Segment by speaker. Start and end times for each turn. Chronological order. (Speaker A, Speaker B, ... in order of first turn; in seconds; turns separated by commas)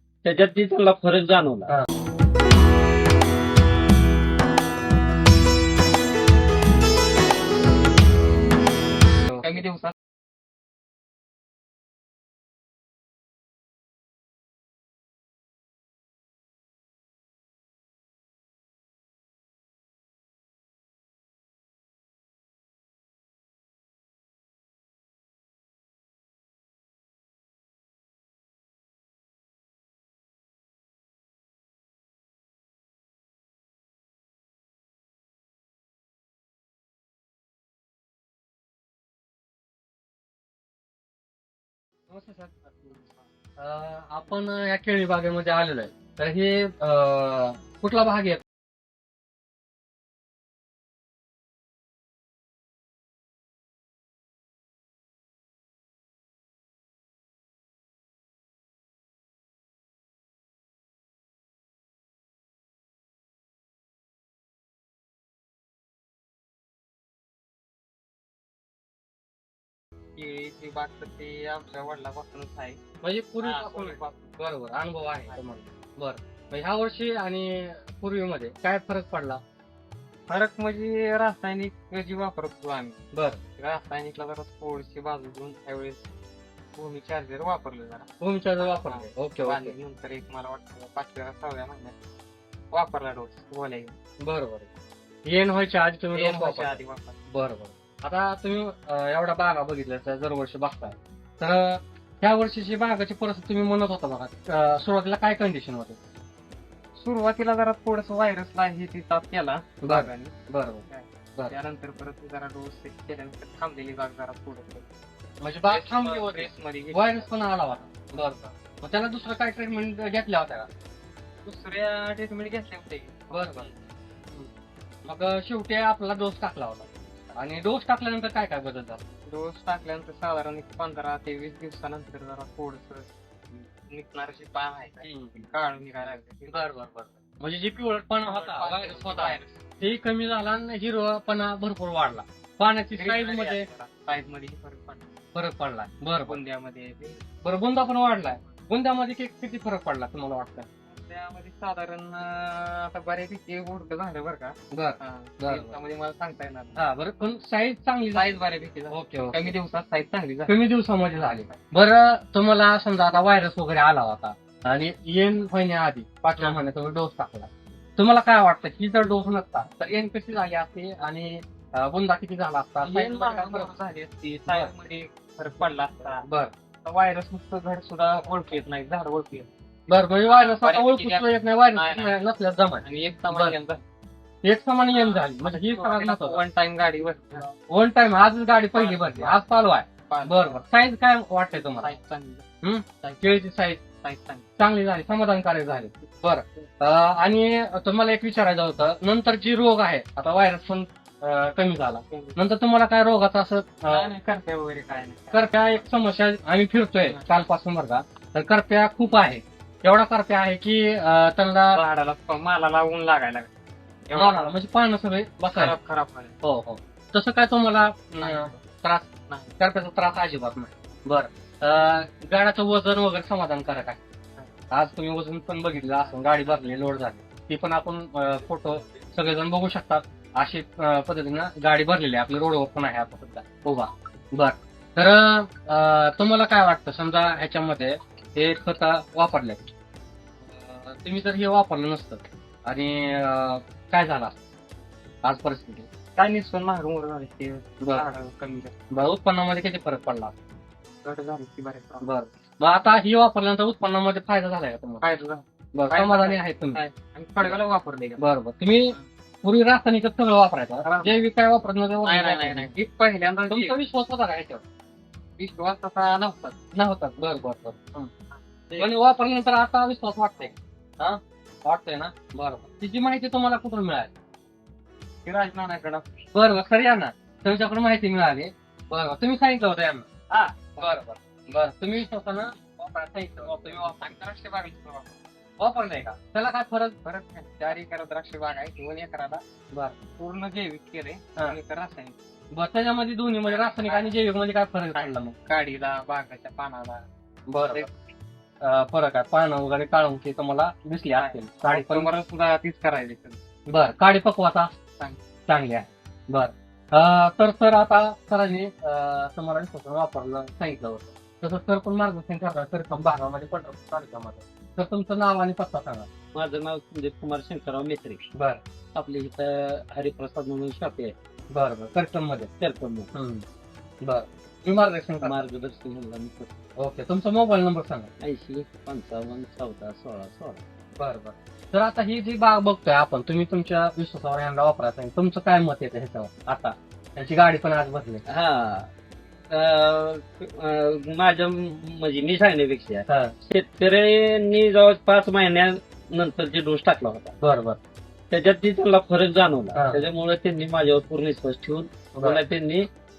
Speaker A: 0.2-1.7, Speaker B: 9.3-9.6, Speaker C: 9.4-9.9, Speaker B: 42.1-43.0, Speaker B: 43.6-48.4, Speaker C: 70.2-72.8, Speaker B: 73.0-79.4, Speaker C: 73.4-74.3, Speaker C: 80.3-83.0, Speaker B: 83.1-83.4, Speaker C: 83.6-86.1, Speaker C: 86.8-88.1, Speaker B: 88.2-89.7, Speaker C: 88.6-91.9, Speaker C: 92.7-93.9, Speaker B: 94.2-94.7, Speaker B: 95.2-106.0, Speaker C: 96.1-97.2, Speaker C: 107.0-110.3, Speaker B: 109.8-110.8, Speaker C: 110.9-114.8, Speaker B: 115.4-120.7, Speaker C: 115.7-117.8, Speaker C: 121.4-123.8, Speaker B: 123.3-123.7, Speaker B: 125.0-129.0, Speaker C: 129.2-133.1, Speaker C: 133.6-136.7, Speaker B: 135.0-135.4, Speaker B: 136.5-143.7, Speaker C: 138.2-139.6, Speaker C: 142.9-145.1, Speaker B: 145.3-146.4, Speaker C: 146.2-147.2, Speaker B: 147.4-150.7, Speaker C: 148.1-148.5, Speaker C: 150.9-156.8, Speaker B: 154.7-155.8, Speaker B: 156.8-158.3, Speaker C: 158.1-160.6, Speaker B: 158.9-159.5, Speaker B: 160.5-173.7, Speaker C: 161.1-161.7, Speaker C: 166.3-166.7, Speaker C: 172.8-176.2, Speaker B: 174.4-174.7, Speaker B: 176.2-176.5, Speaker C: 176.8-179.5, Speaker B: 179.9-183.6, Speaker C: 180.3-182.1, Speaker C: 182.8-183.8, Speaker B: 184.4-186.4, Speaker C: 184.9-187.5, Speaker B: 187.7-191.9, Speaker C: 188.7-189.4, Speaker C: 190.1-190.6, Speaker C: 191.6-192.4, Speaker B: 192.6-193.8, Speaker C: 193.0-193.4, Speaker C: 194.0-194.5, Speaker B: 194.6-204.1, Speaker C: 202.1-202.4, Speaker C: 203.9-205.8, Speaker B: 205.3-211.8, Speaker C: 207.0-207.3, Speaker C: 211.7-213.5, Speaker C: 214.1-214.6, Speaker B: 214.1-215.8, Speaker C: 215.5-216.3, Speaker B: 216.4-219.1, Speaker C: 218.2-218.6, Speaker C: 219.3-219.5, Speaker B: 219.6-224.0, Speaker B: 224.7-239.7, Speaker C: 225.9-226.8, Speaker B: 240.4-244.4, Speaker B: 245.2-245.9, Speaker C: 246.2-248.7, Speaker B: 247.8-248.1, Speaker B: 248.9-250.3, Speaker C: 251.0-252.1, Speaker B: 252.0-255.0, Speaker C: 255.0-258.2, Speaker B: 255.7-256.8, Speaker B: 258.2-262.7, Speaker C: 260.8-261.2, Speaker C: 262.0-263.8, Speaker B: 263.5-264.6, Speaker C: 265.4-266.6, Speaker B: 266.7-268.1, Speaker C: 268.3-268.9, Speaker B: 268.8-274.1, Speaker C: 275.2-276.1, Speaker B: 276.3-280.1, Speaker C: 280.3-281.0, Speaker B: 280.8-284.1, Speaker C: 283.4-285.2, Speaker B: 285.6-286.9, Speaker C: 287.0-289.4, Speaker B: 289.7-290.0, Speaker C: 290.2-292.1, Speaker B: 292.5-295.3, Speaker C: 293.4-294.1, Speaker C: 294.9-297.1, Speaker B: 297.5-297.9, Speaker B: 298.6-302.1, Speaker C: 301.1-303.4, Speaker B: 303.7-304.7, Speaker B: 305.5-316.1, Speaker A: 316.3-318.2, Speaker B: 318.3-318.6, Speaker A: 318.9-321.1, Speaker B: 321.5-322.5, Speaker A: 322.6-323.1, Speaker B: 323.1-323.4, Speaker B: 324.0-325.4, Speaker A: 325.2-326.5, Speaker B: 326.8-328.1, Speaker A: 328.2-330.6, Speaker B: 331.0-338.2, Speaker A: 338.3-338.9, Speaker A: 339.5-347.3, Speaker B: 343.1-343.3, Speaker B: 347.4-347.8, Speaker A: 348.3-352.9, Speaker B: 349.7-350.0, Speaker B: 352.1-352.4